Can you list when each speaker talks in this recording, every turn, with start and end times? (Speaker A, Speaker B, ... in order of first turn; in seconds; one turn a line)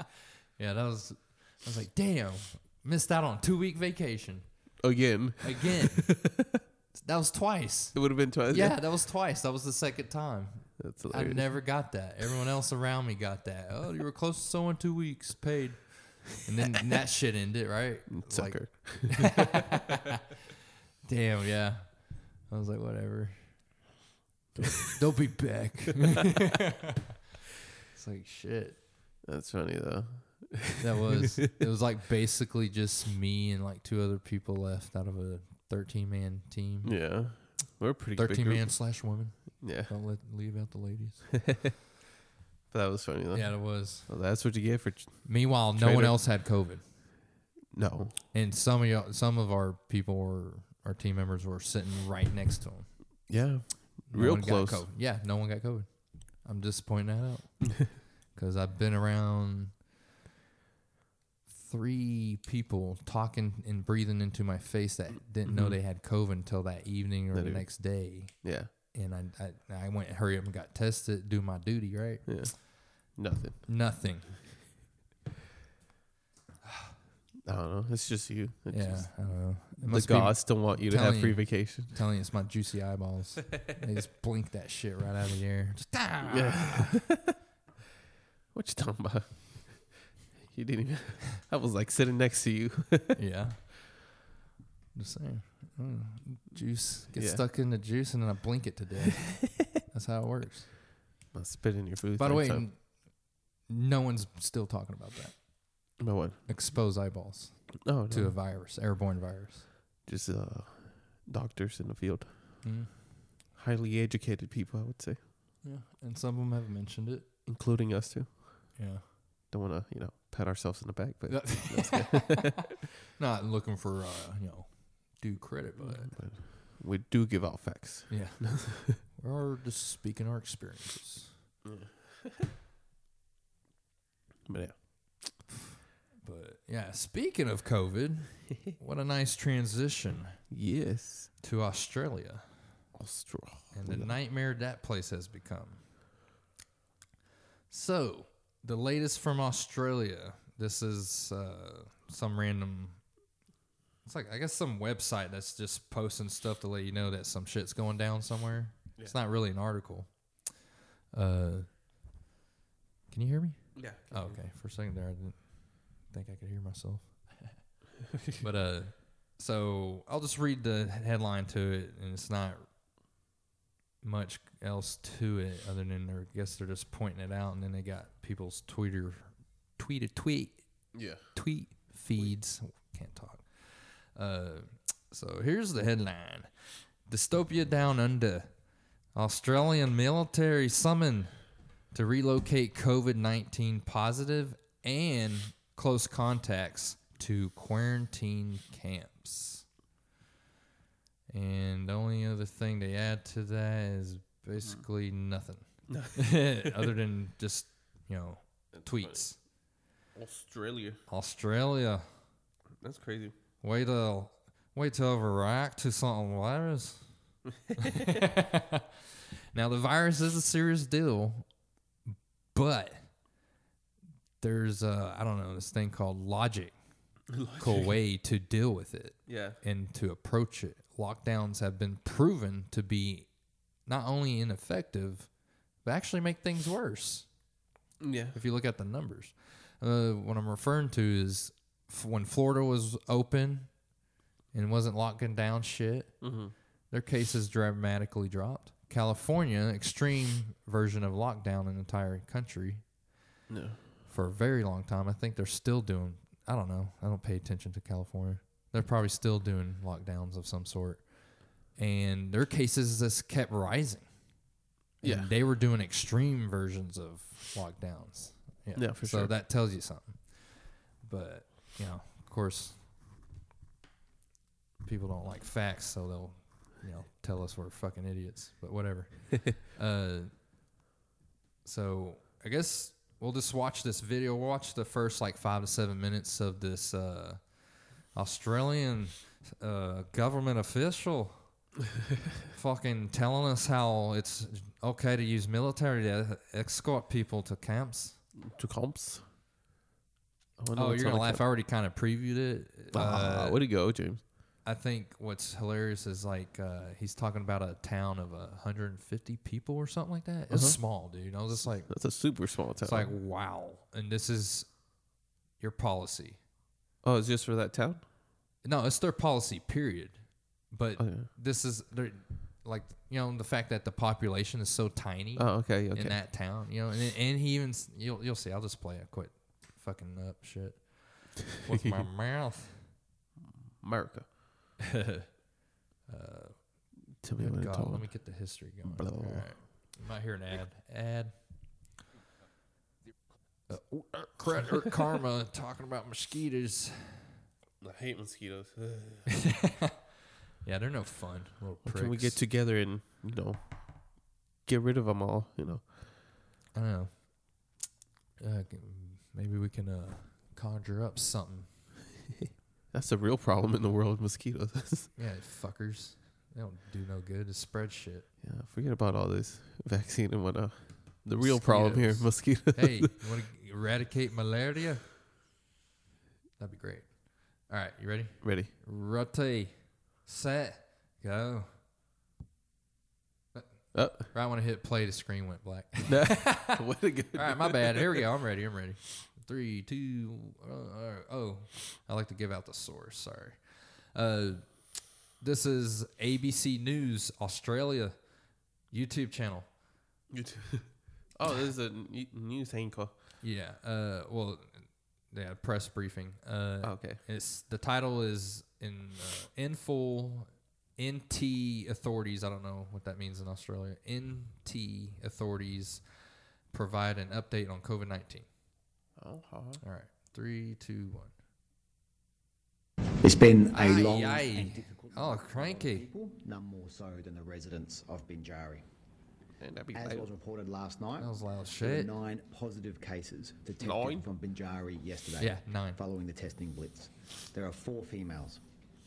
Speaker A: 0.6-4.7
Speaker B: 4.8-6.6
Speaker A: 5.4-6.1
Speaker A: 6.9-20.0
Speaker B: 7.9-8.8
Speaker B: 10.8-11.9
Speaker B: 18.1-19.9
Speaker A: 21.1-23.6
Speaker B: 24.6-24.9
Speaker A: 24.8-26.7
Speaker A: 27.9-28.8
Speaker B: 29.2-31.1
Speaker A: 30.8-37.0
Speaker B: 36.8-38.9
Speaker A: 38.2-41.4
Speaker B: 39.6-39.9
Speaker B: 42.7-46.2
Speaker A: 43.3-44.1
Speaker A: 45.2-46.9
Speaker B: 47.7-48.2
Speaker A: 48.3-53.1
Speaker B: 53.3-54.8
Speaker A: 54.1-59.8
Speaker A: 61.5-72.9
Speaker B: 65.4-65.8
Speaker B: 67.3-68.7
Speaker B: 72.2-73.7
Speaker A: 73.6-74.5
Speaker B: 77.4-82.0
Speaker A: 78.7-87.0
Speaker B: 86.3-87.3
Speaker B: 88.5-93.2
Speaker A: 93.1-94.1
Speaker A: 94.9-100.7
Speaker B: 97.1-97.4
Speaker B: 101.3-102.6
Speaker A: 102.2-102.9
Speaker A: 103.7-105.4
Speaker B: 106.0-106.5
Speaker A: 106.5-109.7
Speaker B: 107.8-108.3
Speaker B: 110.0-112.6
Speaker A: 112.6-113.0
Speaker B: 113.5-115.2
Speaker A: 115.6-117.3
Speaker B: 117.5-118.8
Speaker A: 118.8-119.0
Speaker B: 119.5-122.8
Speaker A: 121.3-122.5
Speaker A: 123.1-126.1
Speaker B: 125.8-129.0
Speaker A: 128.1-131.3
Speaker B: 131.6-132.5
Speaker B: 134.5-135.3
Speaker A: 136.2-140.4
Speaker B: 140.5-141.3
Speaker A: 141.4-142.5
Speaker B: 142.9-144.1
Speaker A: 143.7-145.8
Speaker A: 147.7-153.0
Speaker A: 154.0-160.3
Speaker A: 161.1-161.7
Speaker A: 163.1-167.5
Speaker B: 163.8-164.4
Speaker B: 168.1-168.4
Speaker A: 168.4-172.7
Speaker A: 174.0-186.5
Speaker B: 180.9-181.3
Speaker A: 187.1-188.5
Speaker A: 189.1-191.4
Speaker A: 191.9-199.7
Speaker A: 201.3-209.4
Speaker B: 205.9-206.9
Speaker B: 208.7-209.3
Speaker B: 210.1-211.0
Speaker A: 211.1-212.1
Speaker B: 212.8-213.3
Speaker A: 213.6-217.1
Speaker B: 217.7-218.2
Speaker A: 217.8-218.9
Speaker A: 219.5-221.4
Speaker A: 222.5-223.1
Speaker A: 224.4-226.7
Speaker B: 227.3-227.9
Speaker A: 227.6-233.3
Speaker B: 229.3-229.6
Speaker A: 233.8-235.3
Speaker A: 235.8-237.3
Speaker B: 238.0-238.4
Speaker A: 238.3-243.7
Speaker A: 244.5-246.3
Speaker B: 246.2-246.5
Speaker A: 246.9-252.8
Speaker B: 253.5-253.9
Speaker A: 254.1-264.1
Speaker A: 265.0-272.8
Speaker B: 265.0-265.3
Speaker B: 268.8-269.3
Speaker A: 274.8-280.3
Speaker A: 281.6-287.6
Speaker A: 288.1-291.5
Speaker A: 292.5-298.2
Speaker B: 298.4-299.2
Speaker B: 300.6-301.4
Speaker A: 300.7-303.6
Speaker B: 302.9-304.2
Speaker A: 304.6-311.9
Speaker B: 310.5-310.8
Speaker B: 311.9-313.1
Speaker A: 312.8-314.7
Speaker A: 315.6-316.4
Speaker B: 317.0-318.0
Speaker A: 318.6-332.9
Speaker B: 321.0-321.3
Speaker B: 325.4-326.2
Speaker B: 333.8-334.3
Speaker A: 334.8-335.3
Speaker A: 336.1-336.9
Speaker B: 337.2-339.6
Speaker A: 337.4-341.3
Speaker A: 343.7-347.4
Speaker B: 347.8-349.3
Speaker A: 349.3-349.9
Speaker A: 350.6-352.4
Speaker B: 351.8-353.6
Speaker B: 354.6-355.9
Speaker A: 356.7-357.3
Speaker A: 358.4-362.0
Speaker B: 362.9-365.1
Speaker A: 365.1-368.3
Speaker B: 368.4-373.3
Speaker A: 371.4-375.1
Speaker A: 376.6-381.7
Speaker B: 378.4-378.7
Speaker A: 383.5-386.8
Speaker B: 383.9-384.3
Speaker B: 386.1-388.2
Speaker A: 387.3-393.6
Speaker A: 394.1-398.2
Speaker A: 398.9-399.7
Speaker B: 400.3-403.1
Speaker A: 403.4-416.0
Speaker B: 406.8-407.2
Speaker A: 416.7-418.5
Speaker B: 419.2-419.8
Speaker A: 419.8-421.3
Speaker C: 423.2-428.8
Speaker A: 423.7-426.1
Speaker B: 429.6-430.3
Speaker C: 429.9-438.6
Speaker A: 431.2-432.1
Speaker B: 433.8-434.2
Speaker A: 435.4-436.0